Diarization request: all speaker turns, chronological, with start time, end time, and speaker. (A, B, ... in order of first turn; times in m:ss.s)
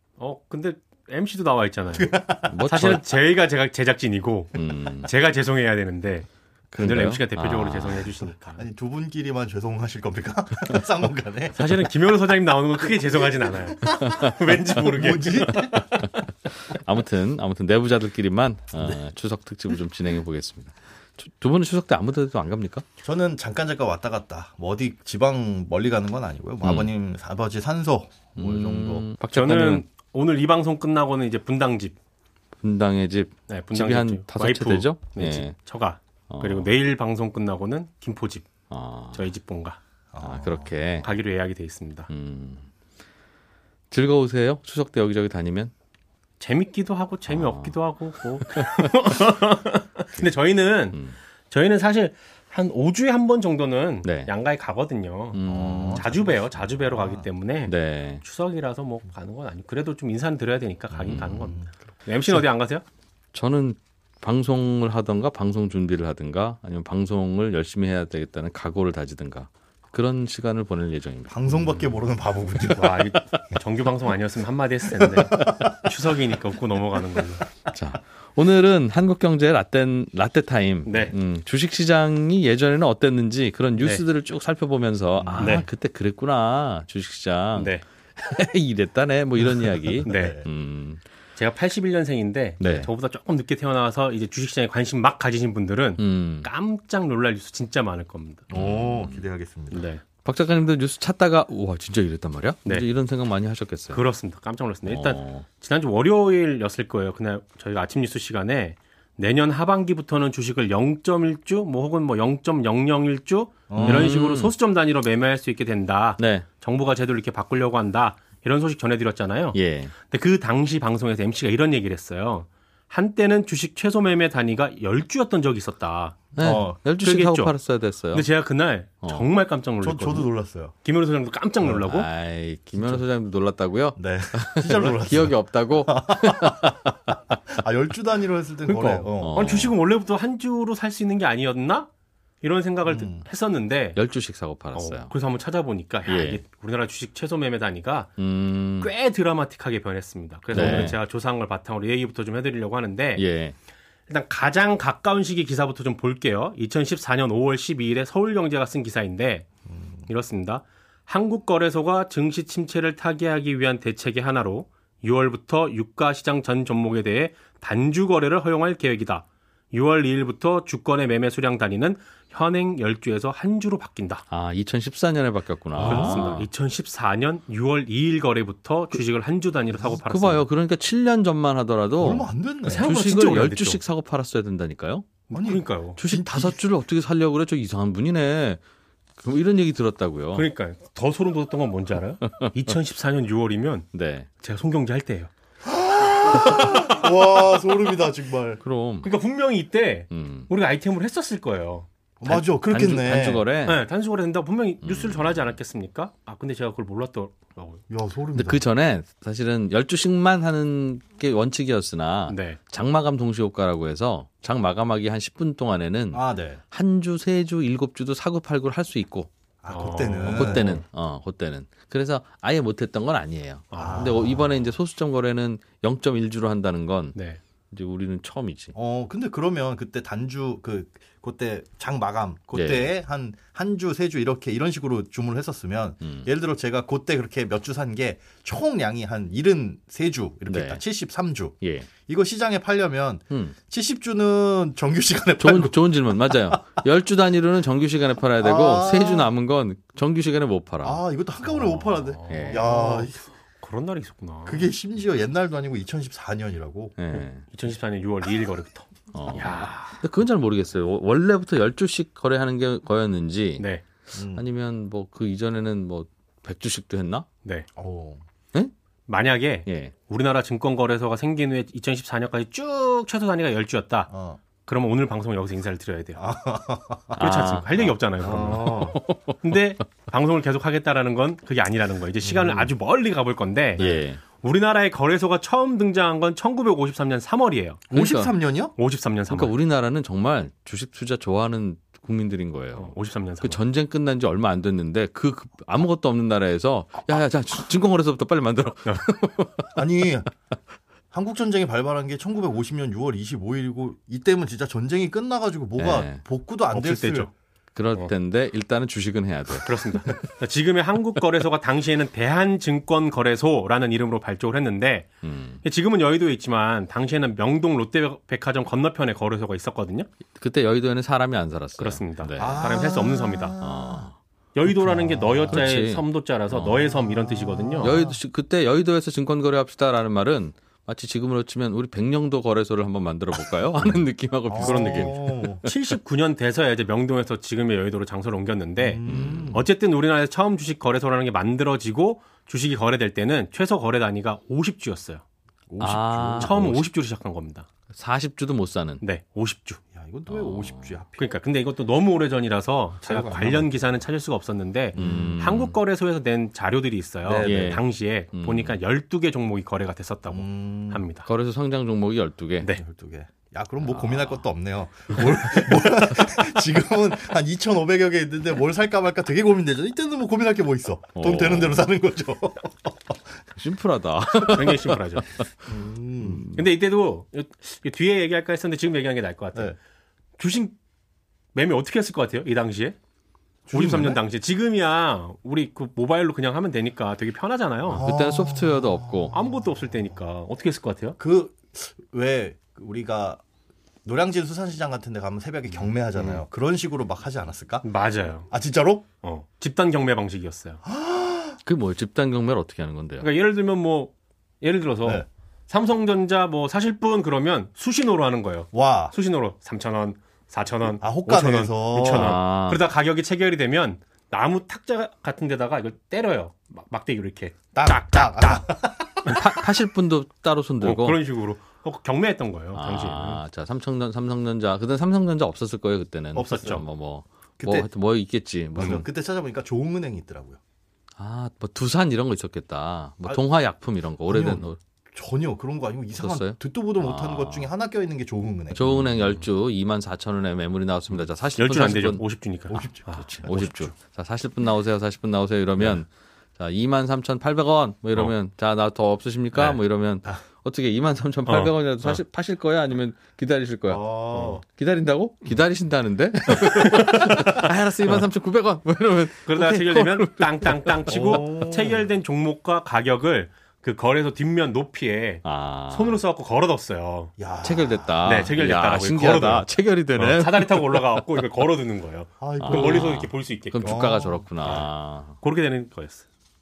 0:00.2-0:08.6 A
0:01.9-0:02.5 B
0:02.5-0:03.0 C
0:04.5-0:05.1 C
0:06.7-0:08.2 C
0:08.6-0:11.6 B
0:11.5-0:15.8 A
0:13.6-0:14.0 B
0:14.8-0:15.9 B
0:15.6-0:16.1 C
0:16.7-0:22.8 C
0:23.0-0:29.1 B
0:26.6-0:26.9 C
0:28.4-0:29.8 C
0:29.3-0:32.0 A
0:32.6-0:35.6 C
0:33.5-0:38.5 A
0:36.3-0:36.7 C
0:38.7-0:39.3 C
0:39.1-0:39.8 A
0:40.1-0:40.7 B
0:40.2-0:41.1 C
0:41.0-0:42.1 A
0:42.1-0:42.7 C
0:43.9-0:45.7 C
0:46.4-1:02.8 A
0:47.3-0:47.8 C
0:54.0-0:54.3 C
0:55.3-0:56.1 C
0:55.5-0:57.3 B
0:57.6-0:58.2 C
1:00.9-1:01.6 C
1:03.3-1:11.7 C
1:11.3-1:13.0 B
1:12.7-1:17.4 A
1:17.7-1:31.0 C
1:20.8-1:21.2 A
1:23.8-1:24.0 A
1:25.2-1:25.5 B
1:25.4-1:25.7 A
1:27.5-1:27.8 A
1:29.5-1:30.5 B
1:30.0-1:30.4 A
1:31.4-1:38.4 A
1:32.6-1:32.9 C
1:36.0-1:36.5 C
1:38.5-1:39.8 B
1:38.5-1:39.2 C
1:39.7-1:40.0 A
1:40.2-1:44.0 C
1:42.6-1:42.9 A
1:43.9-2:06.2 A
1:44.8-1:45.4 C
1:53.7-1:54.1 B
1:53.8-1:54.5 C
1:56.2-1:56.4 C
1:59.5-1:59.9 C
2:06.4-2:08.3 C
2:06.4-2:06.8 B
2:07.0-2:07.5 A
2:08.1-2:10.3 A
2:09.0-2:09.3 C
2:09.8-2:10.7 B
2:10.8-2:12.1 A
2:11.8-2:16.9 C
2:12.8-2:13.0 B
2:14.0-2:16.7 B
2:17.5-2:19.4 B
2:18.6-2:21.9 A
2:19.2-2:19.8 C
2:22.4-2:24.0 A
2:22.8-2:23.2 B
2:23.9-2:25.1 C
2:24.7-2:28.2 A
2:26.0-2:26.4 C
2:28.2-2:28.9 C
2:28.8-2:33.2 A
2:30.5-2:31.0 C
2:33.1-2:33.5 C
2:34.1-2:39.5 A
2:40.1-2:54.2 A
2:54.3-2:56.5 C
2:55.7-3:00.5 A
2:55.9-2:56.2 B
2:59.9-3:05.1 C
3:02.0-3:02.9 B
3:02.6-3:03.8 A
3:05.3-3:06.0 A
3:05.3-3:06.7 B
3:05.9-3:08.6 C
3:09.2-3:10.5 C
3:10.3-3:15.3 A
3:13.9-3:14.3 C
3:15.6-3:18.6 B
3:16.4-3:16.9 A
3:18.6-3:19.1 C
3:19.0-3:21.9 A
3:20.1-3:20.5 C
3:22.2-3:23.4 B
3:22.2-3:23.8 C
3:23.6-3:27.8 A
3:24.8-3:25.6 C
3:27.9-3:28.6 B
3:28.3-3:39.3 C
3:32.3-3:32.6 A
3:36.1-3:36.6 B
3:39.6-3:40.8 B
3:39.7-3:40.7 A
3:40.2-3:47.2 C
3:43.7-3:44.1 A
3:43.8-3:44.5 B
3:47.1-3:47.4 A
3:47.7-3:48.7 C
3:48.7-4:06.4 B
3:52.5-3:52.9 C
3:56.0-3:56.3 C
4:00.4-4:00.8 C
4:01.6-4:01.9 C
4:03.3-4:03.6 C
4:05.4-4:11.0 C
4:08.4-4:09.3 B
4:10.8-4:13.2 B
4:11.4-4:14.7 A
4:12.3-4:12.7 C
4:14.4-4:17.0 B
4:17.0-4:17.4 C
4:17.1-4:20.0 A
4:19.1-4:23.7 C
4:23.6-4:23.8 A
4:24.1-4:24.4 B
4:24.3-4:27.3 C
4:27.4-4:27.7 A
4:27.8-4:28.2 B
4:29.1-4:34.1 A
4:29.6-4:29.9 C
4:34.1-4:34.4 B
4:34.6-4:36.3 A
4:36.2-4:37.2 B
4:37.1-4:37.9 C
4:37.2-4:47.8 A
4:38.2-4:39.0 B
4:38.4-4:39.4 C
4:42.3-4:42.7 B
4:43.8-4:44.2 C
4:47.9-4:48.7 B
4:47.9-4:48.3 C
4:48.8-4:49.5 A
4:49.3-5:00.0 C
4:52.7-4:53.6 A
4:59.7-5:00.3 B
5:01.1-5:07.3 B
5:05.8-5:06.2 C
5:06.7-5:07.3 A
5:07.7-5:10.1 C
5:09.6-5:15.1 A
5:15.2-5:15.6 C
5:15.6-5:20.1 A
5:20.4-5:22.9 C
5:21.8-5:23.5 A
5:22.4-5:24.1 B
5:23.6-5:24.8 C
5:24.5-5:28.0 A
5:24.8-5:25.6 B
5:25.4-5:26.9 C
5:26.8-5:28.2 B
5:27.8-5:35.7 C
5:33.9-5:35.7 B
5:34.5-5:45.2 A
5:38.8-5:39.6 B
5:39.0-5:39.6 C
5:45.7-5:46.8 B
5:45.8-5:46.8 C
5:46.4-5:47.7 A
5:47.9-5:49.0 C
5:49.0-5:49.8 A
5:49.9-5:51.3 B
5:50.3-5:51.0 C
5:51.2-6:01.3 A
5:53.0-5:53.9 B
5:54.9-5:55.8 C
5:55.0-5:55.4 B
5:57.2-5:57.6 B
5:57.4-5:58.8 C
6:00.3-6:01.1 B
6:01.2-6:02.7 C
6:02.8-6:12.9 B
6:03.8-6:04.5 C
6:11.1-6:11.8 C
6:13.6-6:15.4 C
6:14.5-6:15.3 A
6:15.7-6:16.4 B
6:16.2-6:16.6 C
6:16.5-6:19.8 A
6:20.4-6:20.8 A
6:21.5-6:23.0 A
6:23.7-6:24.2 B
6:23.7-6:28.1 A
6:27.9-6:29.4 C
6:27.9-6:30.1 B
6:29.3-6:31.2 A
6:31.2-6:33.4 B
6:34.0-6:37.9 B
6:35.7-6:36.4 A
6:37.8-6:38.5 A
6:38.5-6:39.1 B
6:39.2-6:40.8 A
6:40.8-6:41.6 B
6:41.6-6:43.3 C
6:43.2-6:58.6 A
6:48.7-6:49.1 B
6:50.9-6:52.3 B
6:52.0-6:52.8 C
6:57.7-6:59.3 B
6:59.3-7:01.2 C
7:00.8-7:03.4 A
7:02.7-7:09.0 C
7:06.3-7:06.8 B
7:06.4-7:06.8 A
7:07.6-7:07.9 B
7:08.7-7:10.6 B
7:08.8-7:09.0 A
7:11.2-7:14.8 C
7:14.3-7:18.8 B
7:16.1-7:17.7 C
7:18.7-7:22.2 C
7:21.6-7:23.2 A
7:22.7-7:23.9 B
7:23.1-7:41.4 C
7:29.5-7:30.4 B
7:31.4-7:32.2 A
7:33.9-7:34.6 B
7:34.3-7:34.6 A
7:36.8-7:37.3 A
7:39.4-7:47.3 A
7:41.1-7:42.0 B
7:45.4-7:46.2 C
7:47.4-7:48.2 B
7:47.6-7:51.2 C
7:48.2-7:54.1 A
7:52.4-7:53.1 B
7:52.6-7:55.4 C
7:53.9-7:54.9 B
7:54.6-7:54.9 A
7:55.4-7:56.2 A